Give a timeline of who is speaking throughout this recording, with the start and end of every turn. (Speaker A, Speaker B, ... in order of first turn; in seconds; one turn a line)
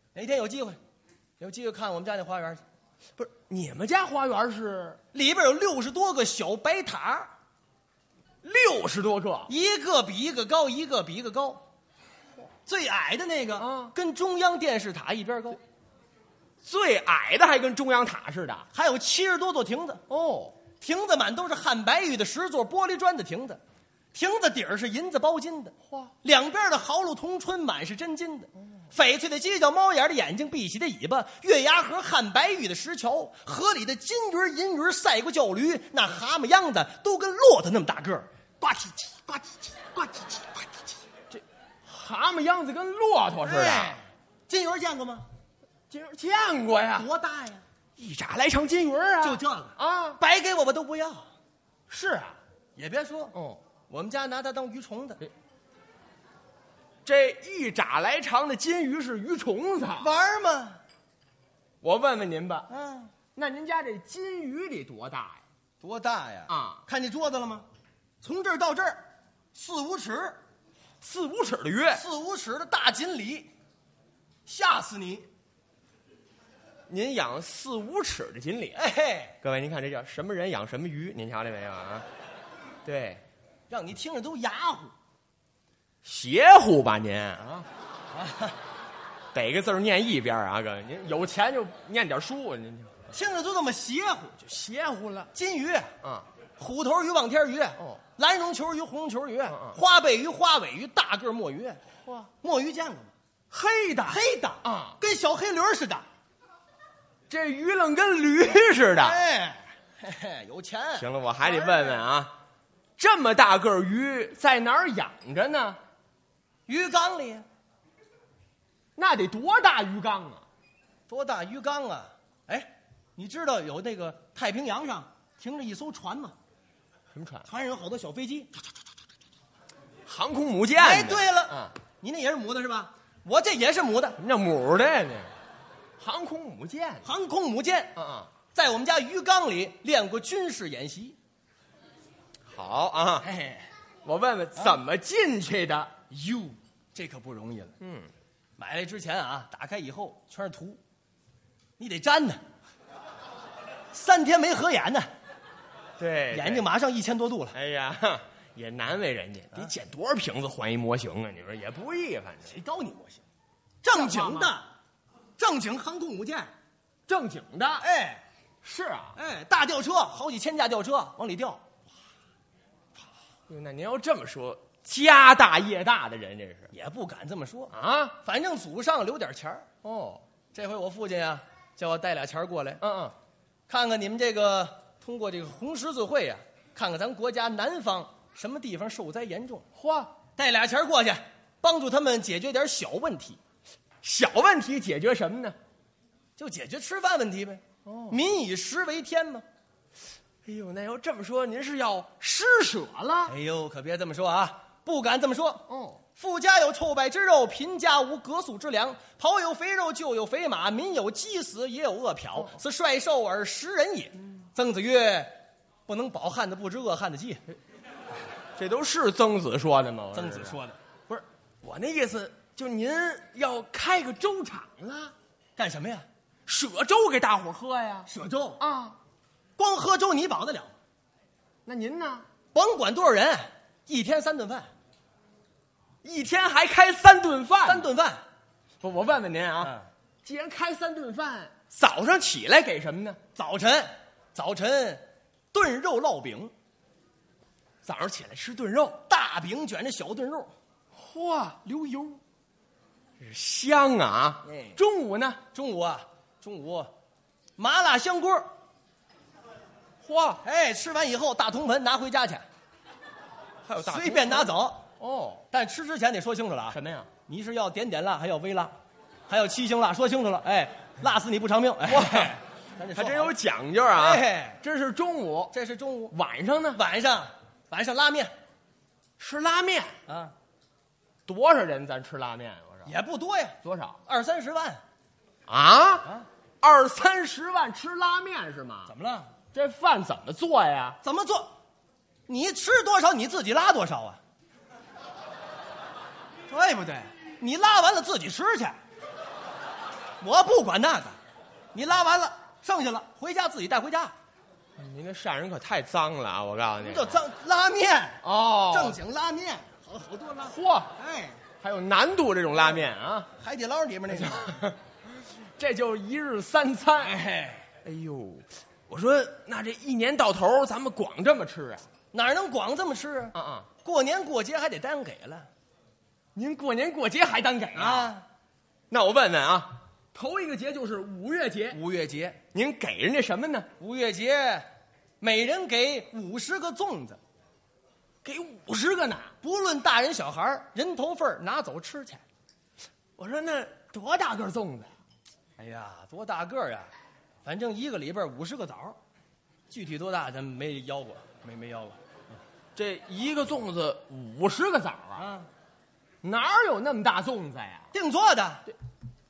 Speaker A: 0.1-0.8
Speaker A: 1.4-2.6
Speaker B: 3.2-5.0
Speaker A: 5.1-7.3
Speaker B: 8.4-9.5
Speaker A: 9.5-11.6
Speaker A: 12.7-15.6
Speaker B: 13.6-13.9
Speaker B: 16.6-18.7
Speaker A: 18.7-20.0
Speaker B: 20.1-20.6
Speaker A: 20.8-23.6
Speaker A: 24.1-38.3
Speaker B: 38.6-40.7
Speaker B: 41.3-44.0
Speaker A: 43.4-45.3
Speaker B: 45.9-47.1
Speaker A: 47.0-47.6
Speaker B: 48.0-50.2
Speaker A: 49.2-51.3
Speaker B: 51.9-52.4
Speaker A: 52.8-53.4
Speaker B: 53.3-53.6
Speaker A: 53.9-55.2
Speaker B: 57.0-60.1
Speaker A: 60.0-60.8
Speaker B: 61.8-62.7
Speaker A: 62.7-63.1
Speaker B: 63.4-65.4
Speaker A: 65.8-67.7
Speaker B: 66.5-66.8
Speaker A: 68.2-69.0
Speaker A: 69.5-70.4
Speaker B: 71.0-72.0
Speaker A: 71.9-73.5
Speaker A: 74.5-75.3
Speaker B: 76.9-78.8
Speaker A: 78.8-79.4
Speaker B: 79.4-82.1
Speaker B: 82.8-83.2
Speaker A: 83.7-84.9
Speaker B: 86.0-87.7
Speaker A: 88.1-88.6
Speaker B: 89.3-93.0
Speaker A: 93.1-94.4
Speaker B: 94.4-95.3
Speaker A: 95.3-95.9
Speaker B: 96.0-96.3
Speaker A: 96.6-101.8
Speaker B: 99.5-99.8
Speaker B: 102.0-102.3
Speaker A: 102.4-103.1
Speaker B: 103.5-105.0
Speaker A: 104.1-106.1
Speaker B: 107.3-109.2
Speaker A: 109.0-112.0
Speaker B: 111.0-112.3
Speaker B: 113.0-115.8
Speaker A: 116.7-117.5
Speaker B: 119.0-120.5
Speaker A: 121.1-126.3
Speaker B: 127.1-127.5
Speaker A: 127.5-128.5
Speaker B: 130.1-131.8
Speaker A: 130.8-134.2
Speaker B: 134.2-135.3
Speaker B: 136.0-137.1
Speaker A: 137.0-137.9
Speaker B: 138.0-138.3
Speaker A: 138.5-141.2
Speaker B: 142.5-143.3
Speaker A: 143.2-143.7
Speaker B: 144.0-146.0
Speaker A: 146.1-147.8
Speaker B: 147.8-148.1
Speaker A: 148.6-150.8
Speaker A: 151.8-152.4
Speaker A: 153.9-155.1
Speaker B: 156.0-156.7
Speaker A: 156.3-157.6
Speaker B: 157.5-162.6
Speaker A: 162.4-163.2
Speaker A: 163.8-164.7
Speaker B: 163.9-164.6
Speaker A: 165.4-166.5
Speaker B: 167.1-167.9
Speaker A: 167.8-168.2
Speaker B: 168.6-169.2
Speaker A: 169.2-171.6
Speaker B: 173.5-176.7
Speaker A: 176.7-179.7
Speaker B: 177.7-178.2
Speaker B: 179.8-180.2
Speaker A: 180.5-182.8
Speaker B: 182.8-183.2
Speaker A: 183.7-189.7
Speaker B: 189.8-190.2
Speaker A: 190.4-193.4
Speaker B: 194.0-195.6
Speaker A: 196.4-199.4
Speaker B: 197.8-198.2
Speaker B: 200.4-203.3
Speaker A: 203.3-205.7
Speaker B: 205.7-206.0
Speaker A: 206.2-215.4
Speaker A: 215.9-217.4
Speaker B: 218.6-225.2
Speaker A: 220.1-220.8
Speaker A: 225.6-226.1
Speaker B: 226.5-229.0
Speaker A: 228.1-228.6
Speaker A: 229.6-230.7
Speaker B: 231.7-232.3
Speaker A: 232.5-234.7
Speaker B: 236.0-237.9
Speaker A: 237.6-238.2
Speaker B: 238.8-243.2
Speaker A: 239.6-239.9
Speaker A: 243.4-246.5
Speaker B: 247.8-249.0
Speaker A: 249.1-250.5
Speaker B: 250.9-251.6
Speaker A: 251.7-252.2
Speaker B: 253.2-255.4
Speaker A: 254.4-254.8
Speaker A: 255.5-256.9
Speaker A: 257.6-258.5
Speaker B: 260.0-260.4
Speaker A: 260.4-262.4
Speaker B: 263.7-265.4
Speaker A: 263.8-264.9
Speaker A: 265.5-268.8
Speaker B: 266.7-267.1
Speaker A: 269.3-273.4
Speaker B: 271.9-272.4
Speaker B: 272.9-275.5
Speaker A: 273.9-274.6
Speaker A: 275.5-276.1
Speaker B: 276.1-276.8
Speaker A: 276.7-278.3
Speaker B: 279.2-280.0
Speaker A: 280.1-280.3
Speaker B: 281.3-282.9
Speaker A: 282.9-284.8
Speaker B: 283.6-284.0
Speaker B: 285.5-286.1
Speaker B: 286.6-288.9
Speaker A: 288.9-289.3
Speaker B: 289.5-291.0
Speaker A: 291.0-291.5
Speaker A: 292.3-294.2
Speaker A: 296.5-298.8
Speaker A: 300.2-301.2
Speaker A: 301.7-304.1
Speaker B: 304.8-307.2
Speaker A: 306.8-311.4
Speaker B: 308.2-309.0
Speaker B: 310.5-310.9
Speaker B: 311.6-313.3
Speaker A: 313.4-314.6
Speaker B: 314.1-317.2
Speaker A: 317.0-317.6
Speaker B: 317.8-321.9
Speaker A: 322.1-325.5
Speaker B: 323.3-323.7
Speaker B: 326.4-328.1
Speaker A: 327.8-328.3
Speaker B: 328.9-331.8
Speaker A: 331.7-332.4
Speaker B: 332.5-333.7
Speaker A: 333.8-334.7
Speaker A: 335.2-337.2
Speaker B: 338.2-339.3
Speaker A: 339.4-342.2
Speaker B: 343.2-344.9
Speaker A: 345.6-346.9
Speaker A: 347.4-349.0
Speaker A: 349.7-352.0
Speaker B: 352.8-355.3
Speaker A: 355.2-355.5
Speaker B: 356.2-357.9
Speaker A: 357.9-358.7